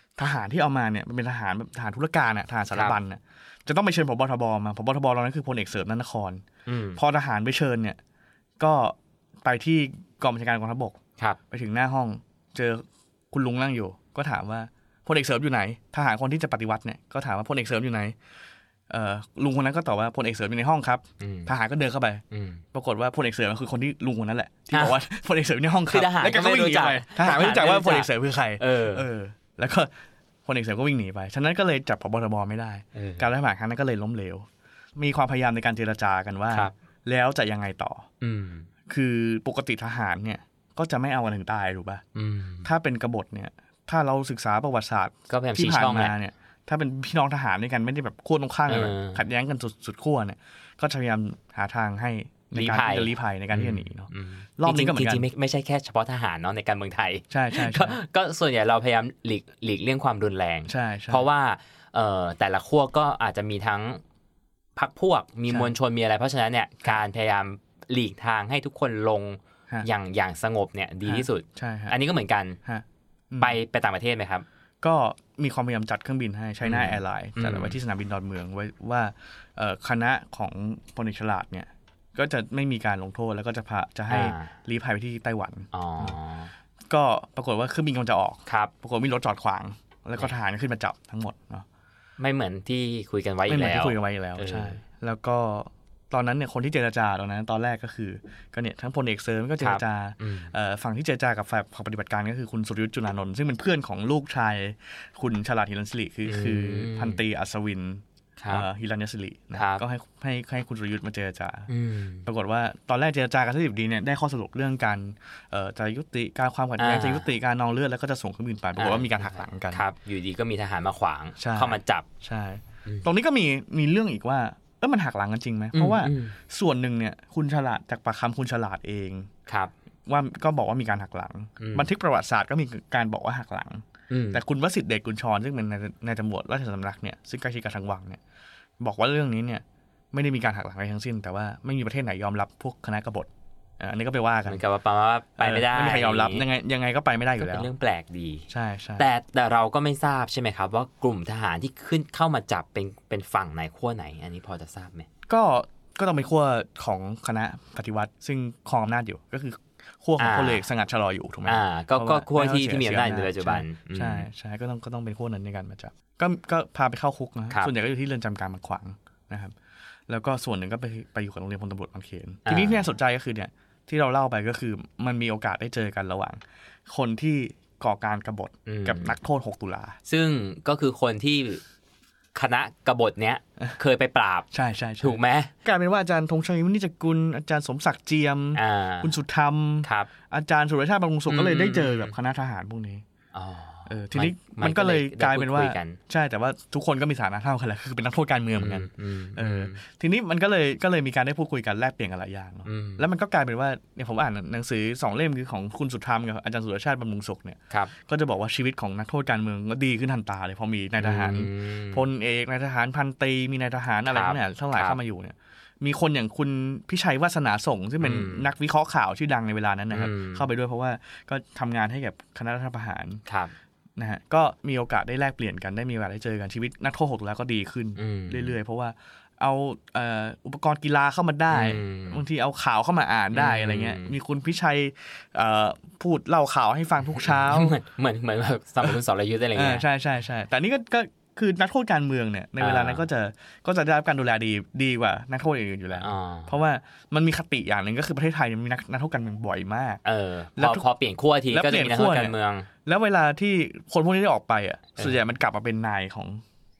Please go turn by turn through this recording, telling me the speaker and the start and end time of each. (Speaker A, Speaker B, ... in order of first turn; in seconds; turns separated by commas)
Speaker A: 0.1-6.4, Speaker B: 2.7-3.0, Speaker B: 6.7-7.0, Speaker A: 7.0-8.0, Speaker A: 8.6-11.0, Speaker A: 11.5-18.1, Speaker A: 18.9-22.2, Speaker B: 21.2-21.5, Speaker B: 22.3-22.6, Speaker A: 22.7-29.9, Speaker B: 24.7-25.0, Speaker B: 25.9-29.1, Speaker A: 30.4-38.0, Speaker B: 32.9-33.3, Speaker B: 38.2-38.7, Speaker A: 38.9-42.0, Speaker B: 42.1-42.7, Speaker A: 42.6-55.3, Speaker B: 45.3-46.1, Speaker B: 48.7-49.2, Speaker B: 52.5-64.0, Speaker A: 57.3-58.0, Speaker A: 60.7-61.2, Speaker B: 64.8-72.6, Speaker A: 65.5-65.7, Speaker A: 71.0-72.0, Speaker A: 72.6-73.6, Speaker B: 73.4-74.5, Speaker A: 74.8-86.2, Speaker B: 76.6-77.8, Speaker B: 84.1-84.5, Speaker B: 85.7-86.5, Speaker A: 86.9-91.7, Speaker B: 88.5-88.7, Speaker B: 92.2-94.8, Speaker A: 93.5-111.7, Speaker B: 99.6-100.5, Speaker B: 106.2-107.2, Speaker B: 108.4-108.7, Speaker B: 109.5-109.8, Speaker B: 111.7-112.3, Speaker A: 112.2-119.8, Speaker B: 116.8-117.3, Speaker B: 118.8-122.1, Speaker A: 121.4-129.3, Speaker B: 125.7-126.3, Speaker B: 129.5-129.7, Speaker A: 130.1-138.2, Speaker B: 131.6-131.9, Speaker B: 134.1-134.4, Speaker A: 138.8-143.3, Speaker A: 143.8-144.6, Speaker B: 144.5-146.4, Speaker A: 145.4-147.7, Speaker B: 147.4-148.5, Speaker A: 148.5-149.1, Speaker B: 149.0-155.1, Speaker A: 155.3-169.5, Speaker B: 160.2-160.6, Speaker B: 161.4-164.3, Speaker A: 170.1-180.0, Speaker B: 172.4-172.9, Speaker B: 178.7-179.1, Speaker B: 180.1-181.6, Speaker B: 182.3-184.5, Speaker A: 184.5-193.0, Speaker B: 185.0-185.5, Speaker B: 188.5-189.1, Speaker B: 189.8-190.1, Speaker B: 191.3-192.1, Speaker B: 193.3-196.0, Speaker A: 193.9-223.2, Speaker B: 198.6-199.8, Speaker B: 202.6-203.0, Speaker B: 211.0-212.0, Speaker B: 214.1-215.0, Speaker B: 218.0-218.5, Speaker B: 219.9-220.4, Speaker B: 223.2-223.5, Speaker A: 224.0-237.8, Speaker B: 228.0-228.6, Speaker B: 231.5-232.2, Speaker B: 233.3-234.1, Speaker B: 237.2-239.8, Speaker A: 239.5-250.0, Speaker B: 242.6-243.1, Speaker B: 246.0-246.6, Speaker B: 250.0-252.7, Speaker A: 250.6-250.9, Speaker A: 251.5-256.4